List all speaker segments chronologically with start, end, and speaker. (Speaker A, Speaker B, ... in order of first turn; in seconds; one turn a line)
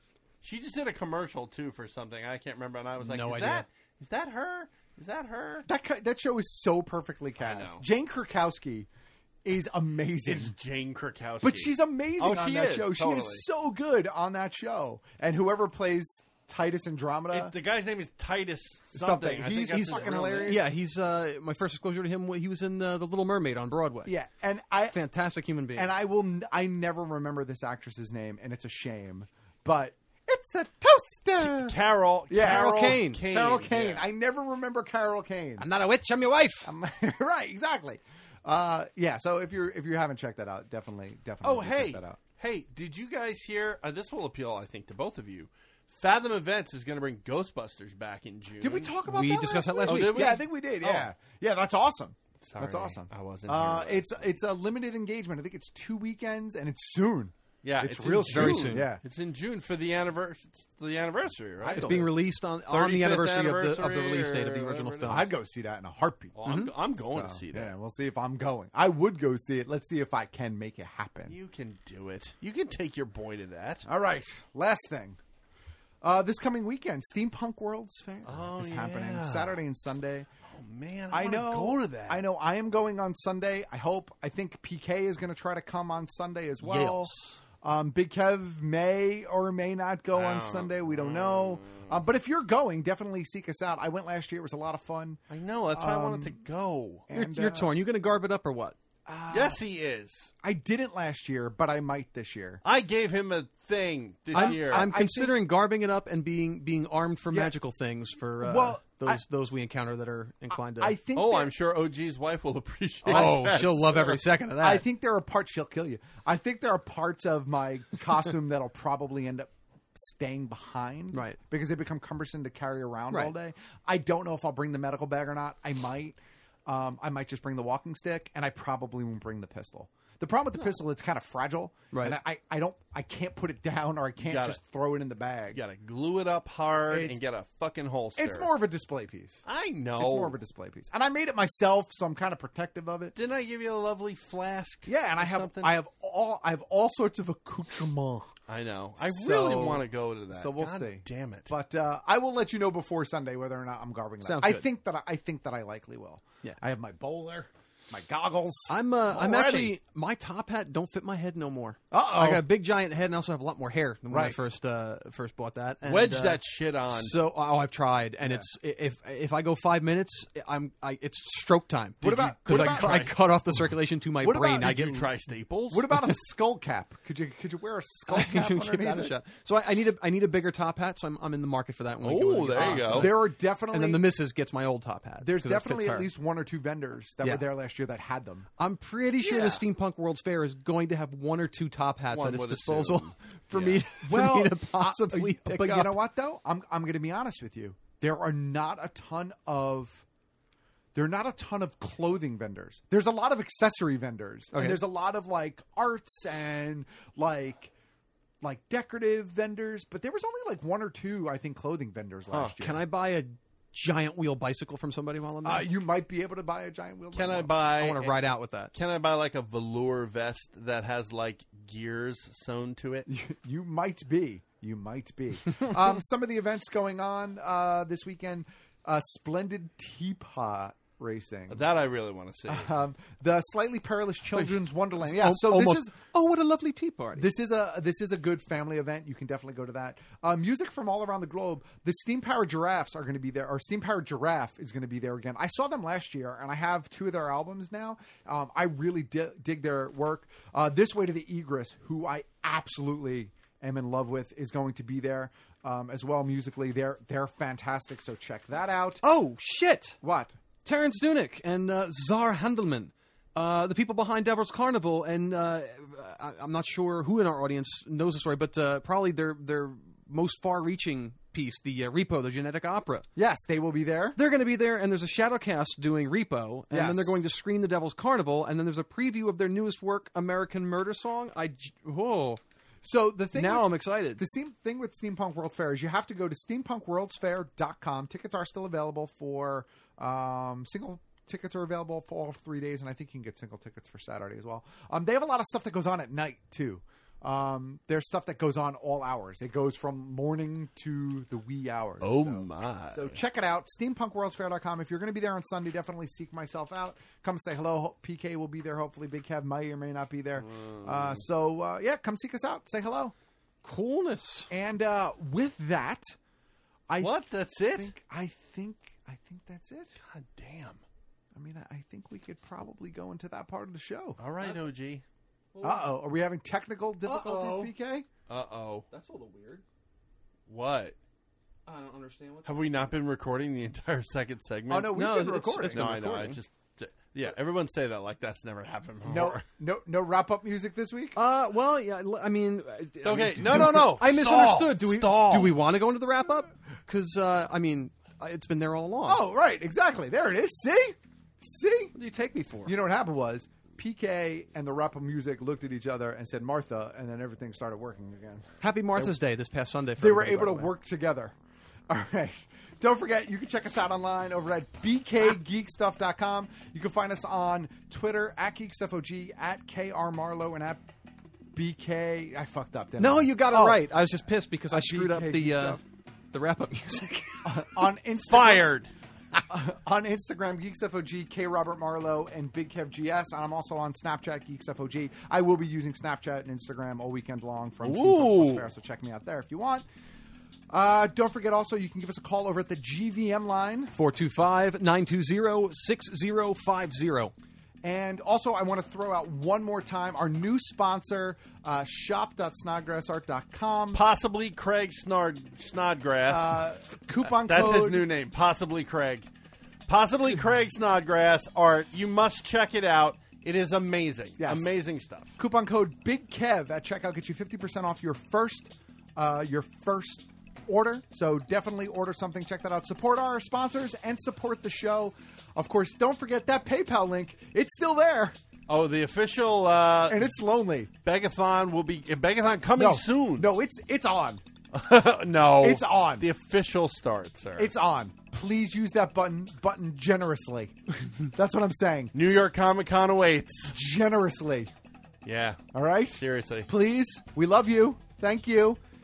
Speaker A: 0.4-5.7
Speaker B: 3.0-3.7
Speaker C: 5.7-8.9
Speaker A: 7.4-7.8
Speaker C: 9.4-10.6
Speaker A: 10.2-13.4
Speaker C: 11.4-17.6
Speaker A: 17.3-20.7
Speaker C: 18.9-20.7
Speaker B: 19.7-24.1
Speaker C: 24.1-25.0
Speaker B: 24.9-25.9
Speaker C: 25.7-31.8
Speaker A: 31.4-34.0
Speaker C: 32.3-35.7
Speaker B: 32.4-33.2
Speaker B: 35.6-36.7
Speaker C: 36.6-42.2
Speaker A: 41.4-49.0
Speaker C: 48.6-59.0
Speaker B: 49.1-50.4
Speaker A: 49.9-51.1
Speaker A: 52.4-54.2
Speaker A: 57.6-62.1
Speaker B: 58.3-58.9
Speaker C: 61.6-62.2
Speaker B: 61.7-65.3
Speaker A: 62.7-65.3
Speaker C: 65.1-66.4
Speaker A: 66.3-67.7
Speaker B: 66.4-66.7
Speaker C: 67.0-71.4
Speaker A: 71.3-73.8
Speaker C: 73.8-75.2
Speaker C: 76.0-80.3
Speaker A: 78.2-79.6
Speaker A: 80.5-82.2
Speaker C: 81.1-95.2
Speaker B: 86.6-87.4
Speaker A: 90.1-92.0
Speaker A: 95.3-97.1
Speaker C: 95.7-96.4
Speaker C: 97.1-97.8
Speaker B: 97.1-98.8
Speaker C: 99.1-99.6
Speaker A: 99.3-100.3
Speaker C: 100.4-102.6
Speaker A: 102.6-104.9
Speaker C: 104.3-105.4
Speaker B: 104.3-111.0
Speaker C: 108.4-109.2
Speaker C: 110.5-111.5
Speaker A: 111.2-114.2
Speaker C: 113.0-135.6
Speaker B: 113.0-114.8
Speaker B: 121.1-121.4
Speaker B: 131.9-132.2
Speaker A: 134.2-134.6
Speaker A: 135.5-138.5
Speaker C: 136.9-137.2
Speaker C: 138.2-139.5
Speaker A: 139.5-140.4
Speaker C: 140.0-143.2
Speaker A: 143.2-145.8
Speaker C: 144.9-148.3
Speaker A: 148.5-151.5
Speaker C: 149.0-159.8
Speaker B: 154.2-154.7
Speaker B: 158.7-175.0
Speaker C: 161.9-162.5
Speaker C: 164.1-164.4
Speaker A: 165.8-167.2
Speaker C: 172.0-173.2
Speaker A: 172.5-173.2
Speaker C: 174.2-175.0
Speaker A: 174.6-175.9
Speaker C: 175.7-179.2
Speaker B: 178.1-186.1
Speaker A: 182.0-183.2
Speaker C: 182.5-184.1
Speaker C: 185.2-188.5
Speaker B: 188.6-196.0
Speaker C: 189.2-189.6
Speaker A: 192.1-193.8
Speaker C: 194.0-200.1
Speaker C: 200.9-207.7
Speaker B: 204.5-204.9
Speaker C: 208.4-212.8
Speaker A: 212.3-212.6
Speaker B: 212.6-215.7
Speaker C: 215.4-217.6
Speaker A: 217.1-223.1
Speaker B: 217.7-218.7
Speaker C: 223.1-231.7
Speaker A: 231.5-232.7
Speaker C: 232.5-235.9
Speaker B: 234.3-237.3
Speaker C: 237.2-259.0
Speaker B: 259.0-260.0
Speaker C: 260.0-260.4
Speaker B: 260.6-273.1
Speaker C: 273.2-274.2
Speaker B: 274.1-282.4
Speaker C: 276.7-277.2
Speaker C: 282.8-313.1
Speaker B: 283.3-284.2
Speaker A: 302.0-303.2
Speaker A: 310.4-311.2
Speaker B: 313.6-314.5
Speaker C: 314.5-316.1
Speaker C: 316.9-319.9
Speaker A: 317.0-317.9
Speaker A: 320.0-320.8
Speaker C: 321.4-324.2
Speaker A: 324.2-325.0
Speaker B: 325.5-326.0
Speaker C: 325.6-328.1
Speaker B: 327.0-327.7
Speaker A: 328.3-328.9
Speaker B: 328.9-329.6
Speaker A: 330.5-331.0
Speaker B: 331.7-332.9
Speaker A: 332.4-335.0
Speaker C: 334.7-336.3
Speaker B: 334.9-336.4
Speaker A: 335.6-339.4
Speaker C: 339.0-341.2
Speaker B: 341.1-349.2
Speaker A: 343.0-344.3
Speaker C: 343.2-345.6
Speaker C: 349.1-351.9
Speaker B: 351.9-352.7
Speaker C: 352.6-359.1
Speaker B: 358.6-360.7
Speaker C: 360.0-361.4
Speaker C: 361.9-370.8
Speaker C: 371.5-374.0
Speaker B: 373.0-375.8
Speaker C: 374.7-375.8
Speaker B: 376.3-377.4
Speaker C: 377.4-378.8
Speaker A: 378.3-378.9
Speaker C: 379.4-389.9
Speaker A: 387.8-388.6
Speaker C: 390.7-393.9
Speaker B: 393.9-397.3
Speaker C: 397.8-404.0
Speaker A: 403.9-406.6
Speaker C: 406.3-408.1
Speaker A: 407.2-409.3
Speaker A: 409.9-415.3
Speaker C: 414.4-414.9
Speaker C: 415.4-428.4
Speaker A: 428.7-430.4
Speaker C: 430.1-430.9
Speaker A: 431.0-433.5
Speaker C: 432.8-434.4
Speaker A: 434.7-437.7
Speaker C: 435.6-436.3
Speaker C: 437.6-442.1
Speaker A: 442.1-443.8
Speaker C: 443.7-444.7
Speaker A: 445.2-446.7
Speaker C: 445.7-448.8